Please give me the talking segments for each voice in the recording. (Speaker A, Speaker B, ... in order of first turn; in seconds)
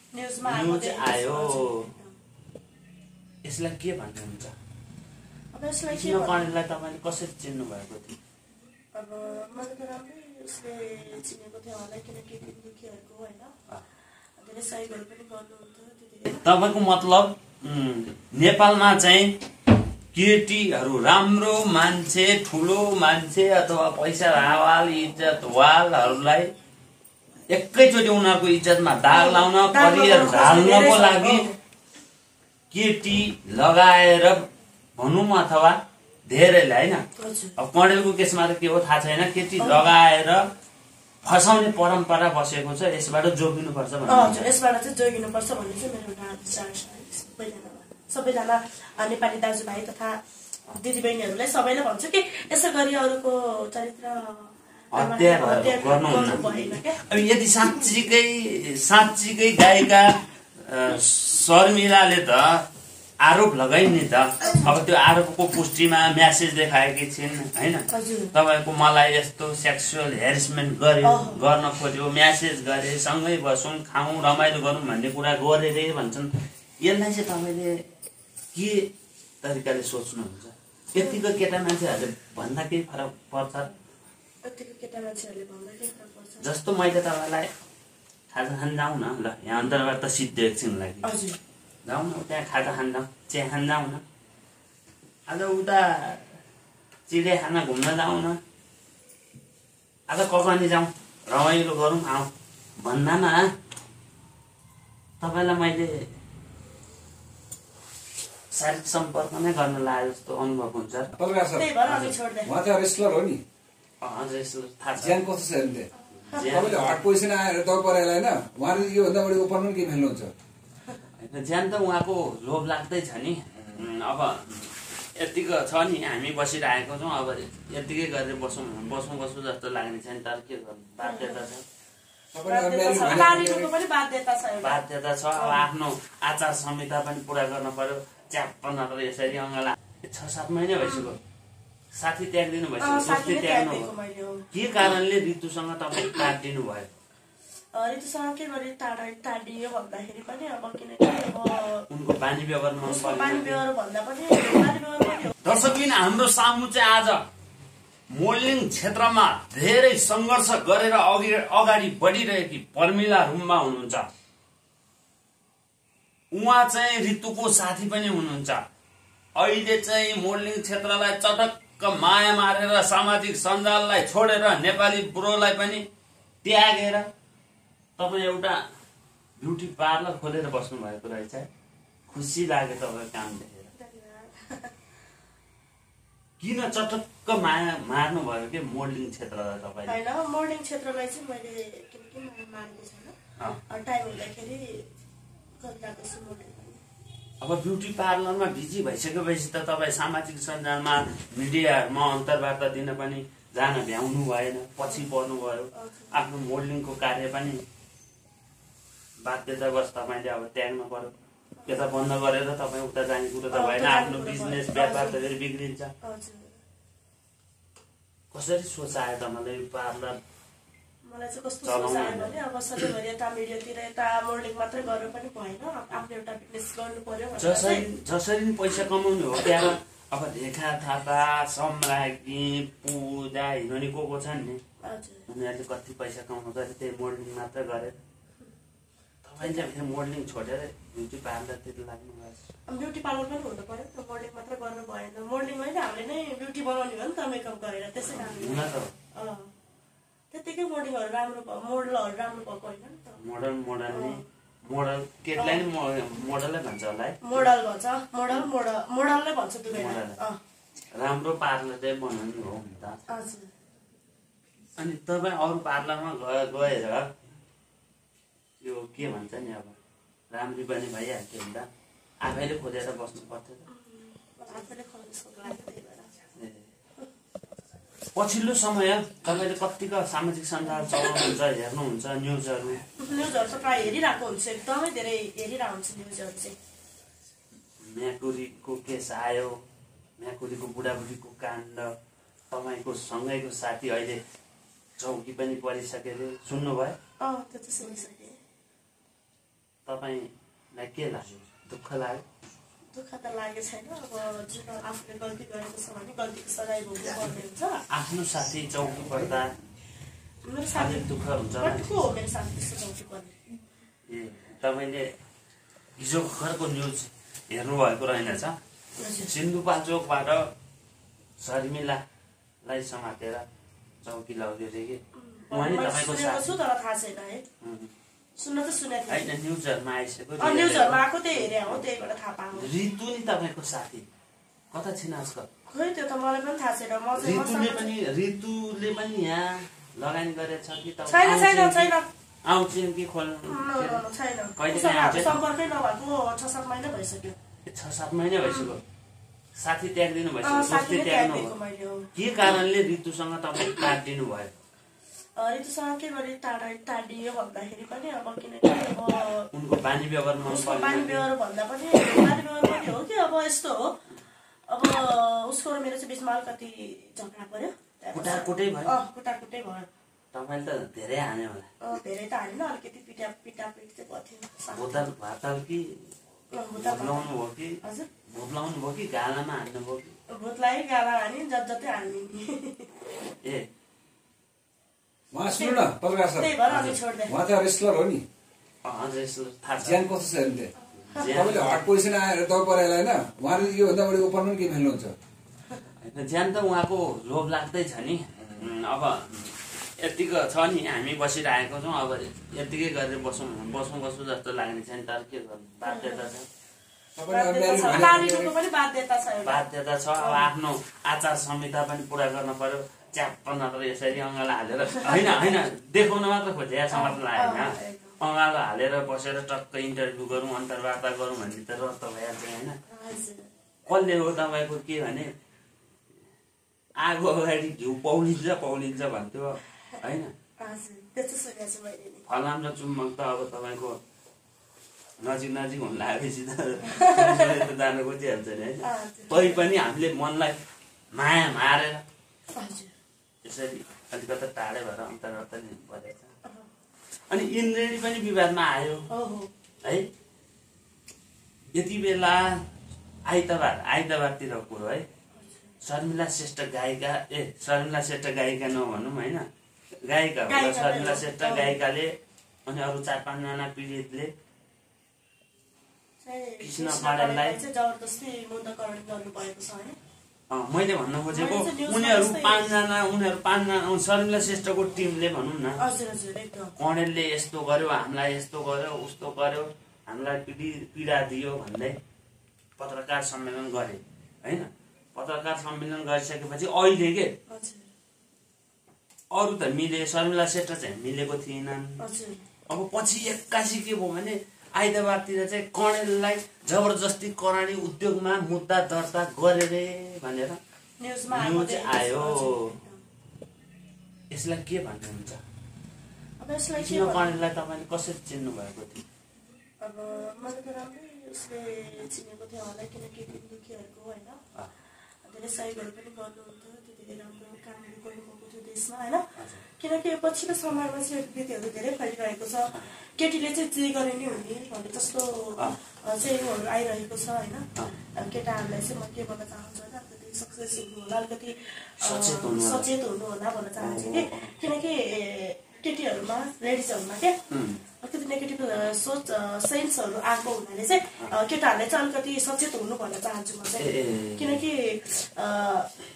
Speaker A: 0.1-2.1, 5.5-6.5, 8.9-13.5, 14.4-16.4, 29.1-31.6, 37.2-37.6, 44.1-57.1, 64.4-64.7, 67.9-68.3, 71.0-71.4, 84.4-86.5, 91.0-91.4, 111.6-112.5, 131.0-131.4, 132.4-134.8, 135.3-135.7, 140.8-141.1, 142.8-144.5, 147.7-151.9, 152.8-155.3, 183.7-184.7, 189.9-193.2, 193.7-194.9, 195.6-196.8, 205.7-206.2, 213.5-215.2, 216.0-216.6, 221.0-227.8, 234.8-235.3, 239.4-239.7, 242.7-249.5, 250.3-253.2, 253.9-254.2, 255.4-255.7, 257.2-260.4, 263.1-263.5, 273.7-276.1, 283.0-286.6, 297.2-298.4, 302.9-307.8, 310.4-311.1, 311.6-313.4, 319.0-319.3, 325.1-327.4, 328.4-329.3, 330.4-332.7, 335.7-337.9, 341.1-342.1, 343.5-347.4, 348.4-348.7, 350.4-352.1, 355.4-359.5, 360.4-364.0, 364.7-369.9, 371.8-375.0, 376.5-378.1, 380.3-382.9, 385.5-385.9, 386.4-387.3, 391.1-391.4, 405.9-406.3, 407.3-409.7, 410.2-410.5, 415.0-415.6, 416.9-418.2, 422.9-423.5, 430.6-432.2, 436.9-437.7, 438.8-439.7, 442.6-442.9, 449.1-449.5, 455.3-455.7, 460.5-461.8, 466.2-470.0, 471.3-472.8, 475.8-476.7, 487.5-487.9, 492.0-492.4, 501.0-503.0, 506.4-507.4, 509.8-514.4, 515.2-519.3, 519.8-537.4, 538.0-545.9
Speaker B: 0.5-1.9, 3.5-4.5, 5.9-8.2, 16.4-19.4, 20.1-26.5, 27.5-31.5, 32.7-35.8, 36.3-37.0, 37.6-40.5, 41.2-44.5, 54.9-62.6, 63.2-76.3, 76.8-77.8, 78.5-78.9, 79.4-83.8, 86.4-87.5, 88.3-91.1, 91.9-94.0, 95.3-96.3, 97.1-98.4, 100.1-103.5, 105.2-106.1, 108.5-111.1, 114.0-115.2, 116.2-117.0, 121.2-131.6, 134.6-141.2, 141.9-143.9, 144.5-146.9, 151.9-153.6, 155.4-157.3, 158.1-164.1, 166.3-168.7, 169.3-175.9, 176.4-177.1, 178.0-178.6, 179.4-181.5, 182.1-183.7, 186.4-190.0, 197.4-207.6, 209.2-211.1, 211.7-215.9, 218.3-220.2, 221.6-222.4, 227.4-234.6, 235.3-238.0, 239.2-242.5, 248.1-248.9, 253.2-257.5, 259.7-260.2, 260.9-263.0, 264.8-267.2, 268.6-269.8, 270.3-271.7, 272.2-273.6, 276.4-276.7, 278.1-282.9, 287.8-289.6, 290.2-291.9, 292.5-294.2, 295.0-297.0, 299.9-302.2, 307.9-309.5, 310.7-311.9, 314.1-315.1, 316.0-318.6, 319.2-320.5, 321.4-322.0, 322.6-323.4, 324.0-326.5, 327.6-327.9, 329.1-331.8, 332.6-334.1, 334.7-335.5, 337.2-341.9, 342.4-344.0, 344.6-345.3, 347.7-348.8, 349.6-351.5, 352.1-354.6, 359.5-361.3, 368.1-368.9, 370.3-371.7, 374.7-376.0, 376.8-380.1, 388.8-390.0, 391.1-391.9, 396.0-406.5, 409.4-422.8, 423.9-425.3, 427.0-430.3, 432.3-434.0, 435.2-440.6, 441.1-442.1, 443.4-446.3, 447.3-449.1, 451.7-452.6, 453.3-455.1, 455.8-459.5, 460.1-462.1, 462.7-464.3, 466.6-467.6, 470.5-475.8, 476.8-482.0, 482.8-487.4, 489.3-492.0, 492.7-500.6, 501.3-502.7, 504.3-505.4, 506.8-509.0, 519.4-519.6, 532.0-532.9, 533.8-534.5, 537.5-537.8, 543.8-544.6
Speaker C: 111.2-111.8, 112.5-113.4, 115.0-115.9, 116.4-120.3, 123.5-123.8, 132.3-133.7, 385.3-388.2, 389.8-395.1, 398.4-398.7, 407.2-408.6